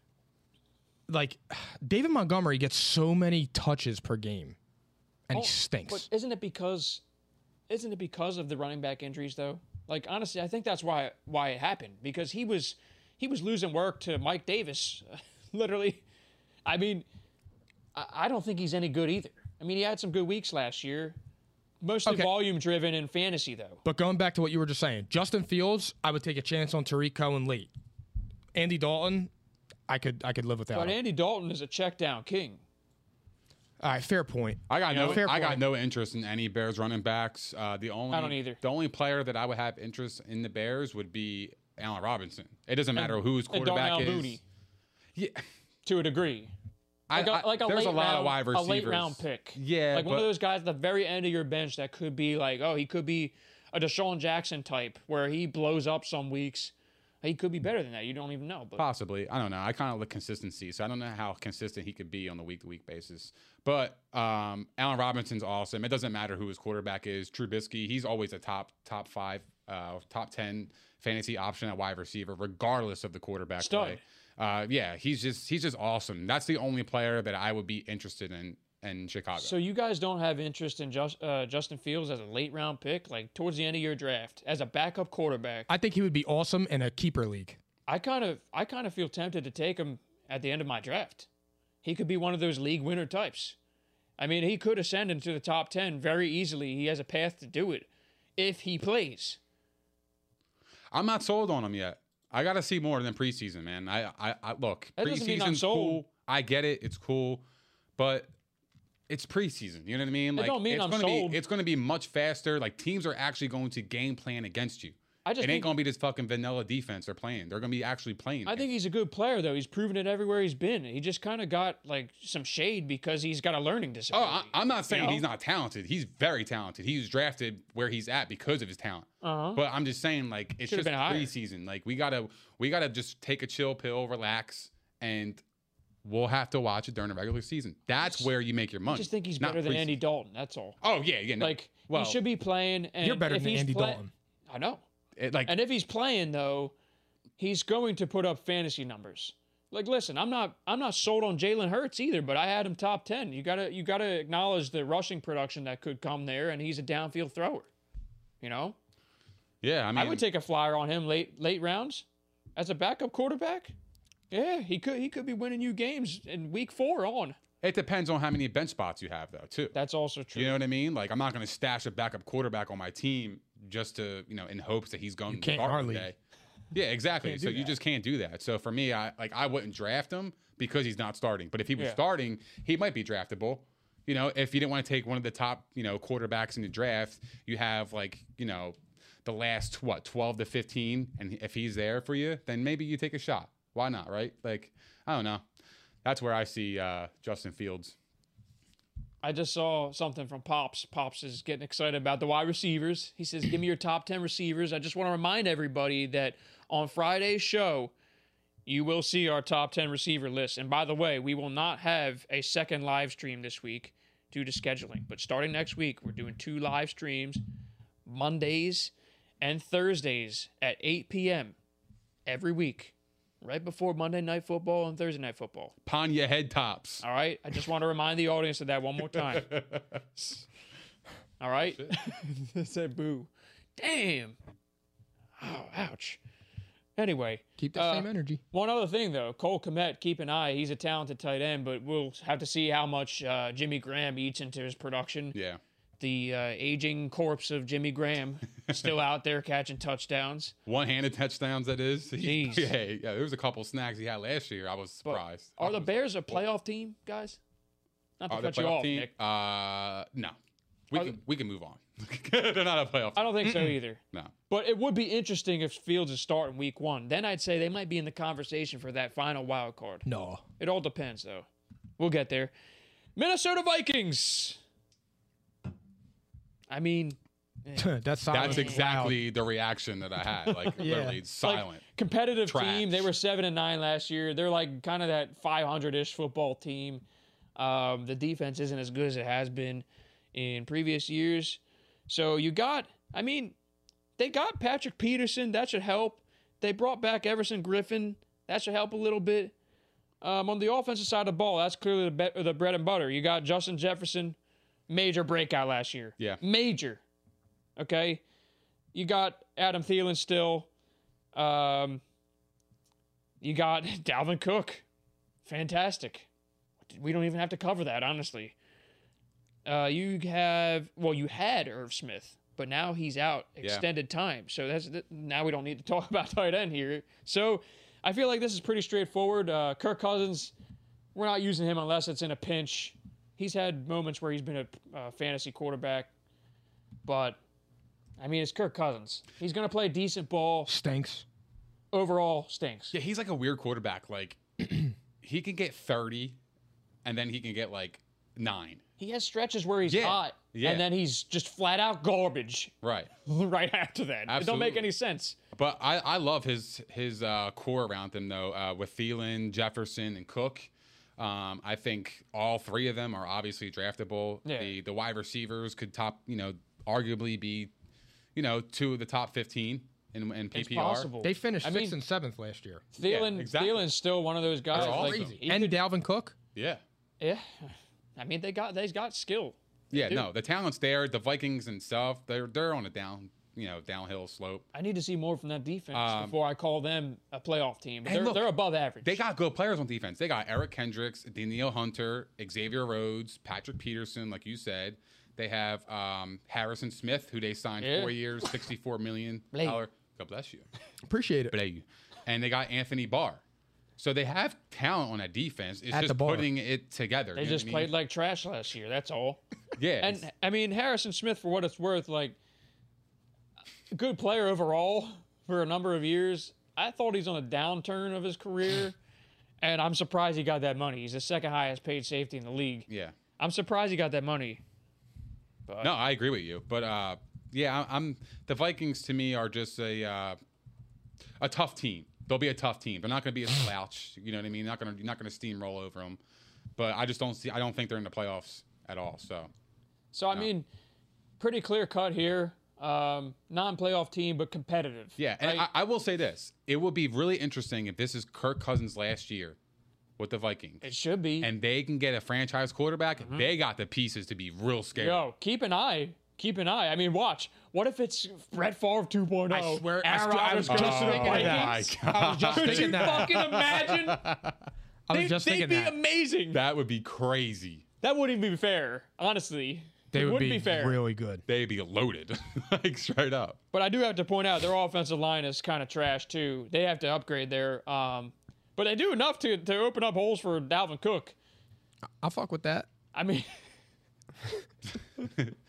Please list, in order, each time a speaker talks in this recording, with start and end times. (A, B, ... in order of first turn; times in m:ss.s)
0:01.1-0:04.6 A
0:05.3-0:06.1 A
0:05.3-0:07.0 B
0:07.7-0:16.0 B
0:16.6-0:17.0 B
0:17.9-0:21.2 B
0:21.8-0:23.8 B
0:22.0-0:22.3 A
0:23.8-0:27.7 A
0:28.5-0:29.3 A
0:29.9-0:31.0 A
0:30.7-0:32.6 B
0:33.8-0:35.6 A
0:34.7-0:44.4 C
0:34.9-0:35.2 B
0:38.1-0:38.6 B
0:43.0-0:44.4 B
0:45.2-0:45.4 C
0:45.8-0:46.5 B
0:47.1-0:50.3 C
0:47.1-0:58.8 B
0:58.8-1:19.6 C
1:13.6-1:14.0 B
1:19.4-1:25.7 B
1:25.7-1:27.6 A
1:27.9-1:31.3 B
1:31.8-1:33.6 B
1:34.2-1:39.4 B
1:40.9-1:47.4 C
1:45.0-1:46.0 B
1:48.0-1:48.3 C
1:49.1-1:58.7 C
1:50.3-1:51.4 B
1:55.2-1:55.7 B
1:58.4-2:05.2 B
2:04.1-2:15.4 C
2:09.2-2:09.6 B
2:10.6-2:11.3 B
2:16.0-2:20.0 C
2:18.0-2:18.3 B
2:18.9-2:20.8 B
2:20.8-2:22.2 C
2:21.4-2:24.8 B
2:23.0-2:24.1 A
2:25.2-2:25.6 C
2:25.4-2:26.7 B
2:27.4-2:37.7 B
2:38.4-2:38.8 B
2:39.6-2:40.2 C
2:40.0-2:42.0 B
2:42.6-2:43.7 B
2:44.3-2:47.4 B
2:47.6-2:49.8 C
2:49.7-2:50.6 B
2:50.3-2:56.1 C
2:55.3-2:56.1 A
2:56.7-3:15.4 C
2:57.2-2:57.7 A
3:16.0-3:17.9 C
3:19.2-3:27.9 B
3:28.6-3:37.4 B
3:38.0-3:41.5 B
3:42.2-3:45.7 B
3:45.8-3:47.0 C
3:47.0-3:49.5 B
3:49.1-3:50.0 C
3:51.4-3:54.4 B
3:55.4-3:56.2 B
3:57.0-4:05.4 B
3:57.6-3:58.4 A
4:05.3-4:05.6 C
4:06.0-4:10.5 B
4:10.6-4:16.4 C
4:12.2-4:12.7 B
4:15.0-4:17.4 B
4:18.2-4:19.1 B
4:18.3-4:20.4 C
4:20.9-4:23.5 C
4:20.9-4:21.2 B
4:23.2-4:30.0 B
4:23.4-4:23.8 A
4:30.0-4:30.4 A
4:30.6-4:31.5 B
4:32.0-4:32.5 B
4:33.2-4:34.6 B
4:36.7-4:39.0 B
4:37.8-4:39.1 A
4:38.3-4:43.1 C
4:40.5-4:40.8 B
4:40.8-4:41.2 A
4:41.4-4:47.0 B
4:47.6-4:53.5 B
4:54.2-4:59.5 B
5:00.2-5:04.4 B
5:04.9-5:07.0 B
5:07.8-5:08.2 B
5:08.9-5:10.7 B
5:11.3-5:12.0 B
5:13.4-5:14.8 B
5:15.4-5:16.3 B
5:16.9-5:18.5 B
5:19.6-5:30.5 B
5:31.1-5:36.1 B
5:37.0-5:37.4 B
5:38.2-5:40.7 B
5:40.7-5:41.2 A
5:41.9-5:42.9 B
5:42.9-5:46.4 C
5:47.0-5:48.8 C
5:49.0-5:52.7 B
5:49.8-5:50.8 C
5:52.8-5:53.1 C
5:53.2-5:55.4 B
5:54.3-5:54.8 C
5:55.5-6:07.7 C
6:04.4-6:04.7 B
6:08.3-6:11.1 C
6:10.5-6:11.9 B
6:11.2-6:12.8 A
6:12.9-6:15.8 B
6:13.0-6:13.9 C
6:14.7-6:15.4 C
6:14.7-6:16.3 A
6:16.5-6:16.8 C
6:17.2-6:20.2 B
6:19.9-6:24.6 C
6:24.7-6:29.2 B
6:25.9-6:26.3 C
6:28.0-6:40.6 C
6:37.8-6:38.1 B
6:39.5-6:39.8 B
6:41.0-6:41.5 A
6:41.5-6:43.4 C
6:44.0-6:47.9 C
6:45.9-6:46.5 A
6:47.4-6:49.4 B
6:49.8-6:50.2 C
6:50.0-6:52.4 B
6:53.9-6:59.0 B
6:59.6-7:04.6 B
7:02.9-7:03.1 C
7:05.7-7:05.9 B
7:05.8-7:10.4 C
7:11.4-7:16.2 C
7:16.8-7:19.5 C
7:20.1-7:20.7 B
7:21.4-7:25.7 B
7:25.2-7:29.6 C
7:30.2-7:30.8 C
7:30.8-7:31.5 B
7:31.4-7:35.2 C
7:33.2-7:33.5 B
7:35.0-7:41.9 B
7:39.5-7:43.4 A
7:40.7-7:44.6 C
7:42.5-7:44.2 B
7:45.1-7:45.9 A
7:45.1-7:46.6 B
7:46.5-7:47.8 C
7:48.0-7:51.0 B
7:50.1-7:51.4 A
7:51.5-7:53.6 C
7:53.7-8:01.3 B
8:02.2-8:02.9 A
8:03.1-8:03.5 B